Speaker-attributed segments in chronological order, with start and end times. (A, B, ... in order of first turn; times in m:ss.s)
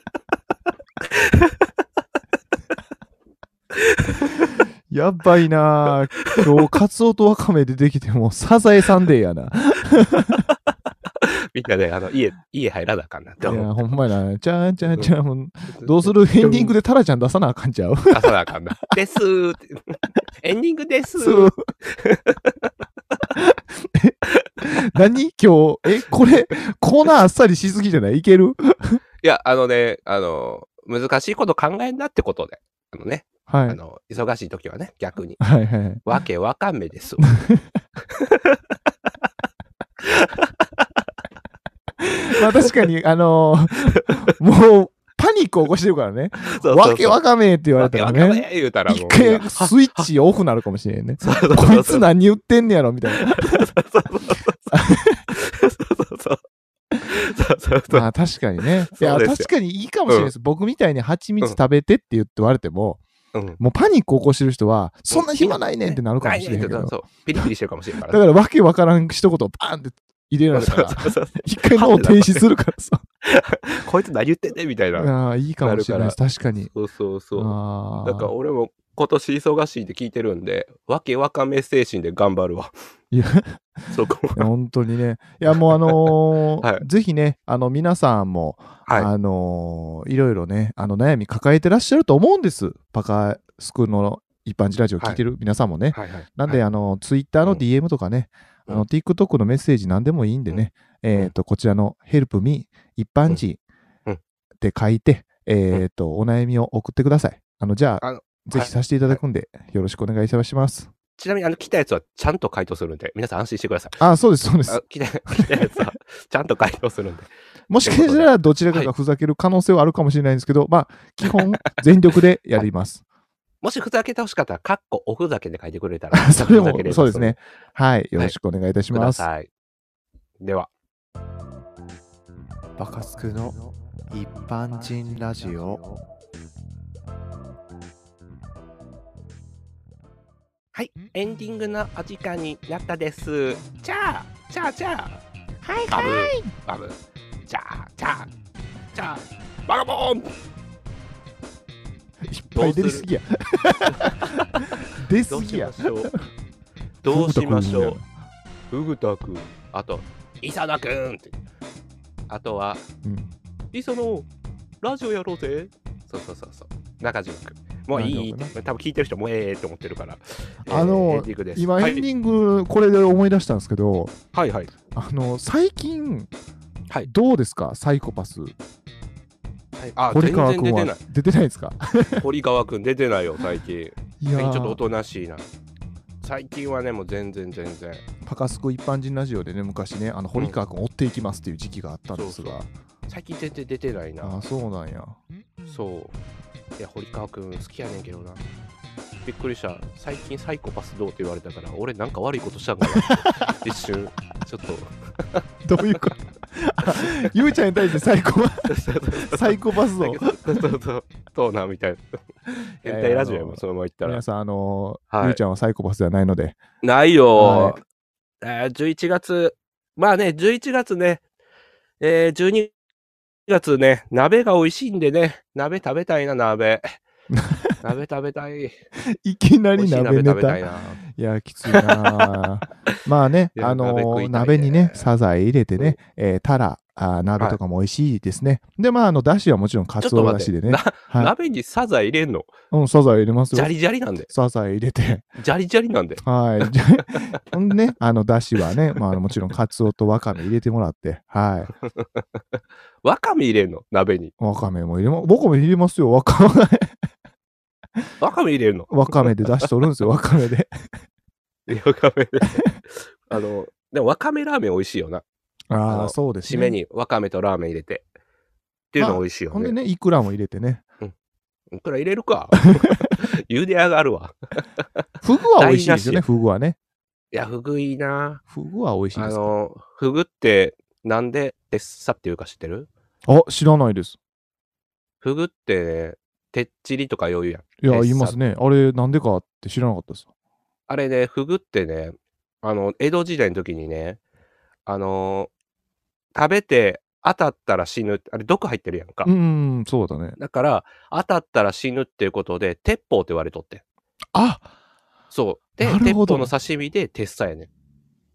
0:01.2-0:01.5 A
0:03.7-0:04.3 A
0:04.9-0:10.5 B
0:11.2-0:13.7 A
0:13.4-0:18.3 B
0:15.7-0:16.7 A
0:18.1-0:22.7 A
0:21.2-0:21.5 B
0:23.3-0:29.0 B
0:29.2-0:35.4 A
0:33.5-0:33.8 B
0:35.4-0:36.0 B
0:36.0-0:37.3 A
0:37.2-0:37.8 B
0:38.2-0:38.6 A
0:40.0-0:40.8 A
0:42.0-0:53.6 B
0:46.4-0:47.2 A
0:47.8-0:50.1 A
0:51.2-0:52.1 A
0:53.1-0:54.8 A
0:54.7-0:55.3 B
0:55.3-0:56.4 A
0:57.0-0:58.1 A
0:57.9-1:03.0 B
0:58.9-0:59.5 A
1:03.3-1:03.6 A
1:03.6-1:06.9 B
1:05.1-1:08.2 A
1:08.1-1:13.0 B
1:10.5-1:12.5 A
1:13.2-1:16.2 A
1:15.0-1:16.7 B
1:16.7-1:22.7 A
1:17.4-1:18.3 B
1:23.1-1:43.6 B
1:23.9-1:24.5 A
1:25.5-1:26.8 A
1:28.8-1:29.1 A
1:35.9-1:36.6 A
1:40.5-1:41.3 A
1:44.6-1:50.9 B
1:48.0-1:49.2 A
1:51.2-1:54.0 A
1:54.0-1:55.8 B
1:54.7-1:58.9 A
1:57.7-2:03.0 B
2:03.6-2:07.4 A
2:06.1-2:09.2 B
2:08.9-2:09.5 A
2:10.4-2:10.7 A
2:12.8-2:15.9 B
2:20.7-2:25.2 A
2:25.6-2:26.5 B
2:25.9-2:28.3 A
2:28.9-2:30.3 A
2:32.2-2:36.2 B
2:32.5-2:33.1 A
2:35.2-2:36.1 A
2:37.0-2:38.0 A
2:37.1-2:38.0 B
2:38.7-2:41.4 A
2:42.3-2:42.8 A
2:43.0-2:43.3 B
2:43.7-2:44.3 A
2:44.8-2:52.0 A
2:47.9-2:48.5 B
2:50.6-2:54.1 B
2:54.3-2:54.7 A
2:54.9-2:56.3 B
2:57.0-2:58.5 B
2:59.8-3:01.0 A
3:00.1-3:02.2 B
3:02.2-3:05.5 A
3:04.2-3:04.8 B
3:06.2-3:08.0 A
3:08.2-3:12.7 B
3:12.1-3:12.6 A
3:13.1-3:14.4 A
3:14.2-3:15.2 B
3:15.6-3:16.2 A
3:16.8-3:18.4 A
3:19.2-3:25.4 A
3:22.9-3:23.5 B
3:25.6-3:28.7 B
3:27.0-3:27.3 A
3:28.7-3:32.0 A
3:29.2-3:30.3 B
3:32.7-3:36.6 B
3:32.8-3:34.2 A
3:35.1-3:35.4 A
3:36.8-3:37.8 A
3:37.4-3:37.8 B
3:38.4-3:41.2 A
3:42.0-3:42.7 A
3:43.5-3:47.0 A
3:47.3-3:47.8 B
3:47.8-3:48.8 A
3:49.0-4:01.3 B
3:49.7-3:51.0 A
3:51.7-3:52.3 A
3:53.5-3:55.1 A
4:00.0-4:02.5 A
4:02.7-4:03.7 B
4:03.5-4:04.3 A
4:04.3-4:05.2 B
4:05.4-4:07.3 A
4:06.2-4:11.7 B
4:11.9-4:12.2 A
4:13.0-4:14.3 A
4:14.4-4:17.0 B
4:18.2-4:19.7 A
4:18.9-4:20.7 B
4:21.7-4:25.2 A
4:25.7-4:26.8 B
4:25.9-4:28.0 A
4:28.9-4:29.8 A
4:29.0-4:30.8 B
4:31.7-4:34.6 A
4:32.8-4:33.1 B
4:35.2-4:36.8 B
4:35.6-4:36.2 A
4:37.3-4:38.4 A
4:38.5-4:39.5 B
4:39.1-4:42.9 A
4:43.2-4:44.2 B
4:45.2-4:48.4 A
4:47.8-4:50.3 B
4:50.9-4:54.2 A
4:54.8-4:55.5 A
4:56.3-4:59.3 A
4:59.2-5:00.4 B
5:00.4-5:03.8 A
5:04.3-5:04.7 B
5:05.3-5:07.7 A
5:05.8-5:06.5 B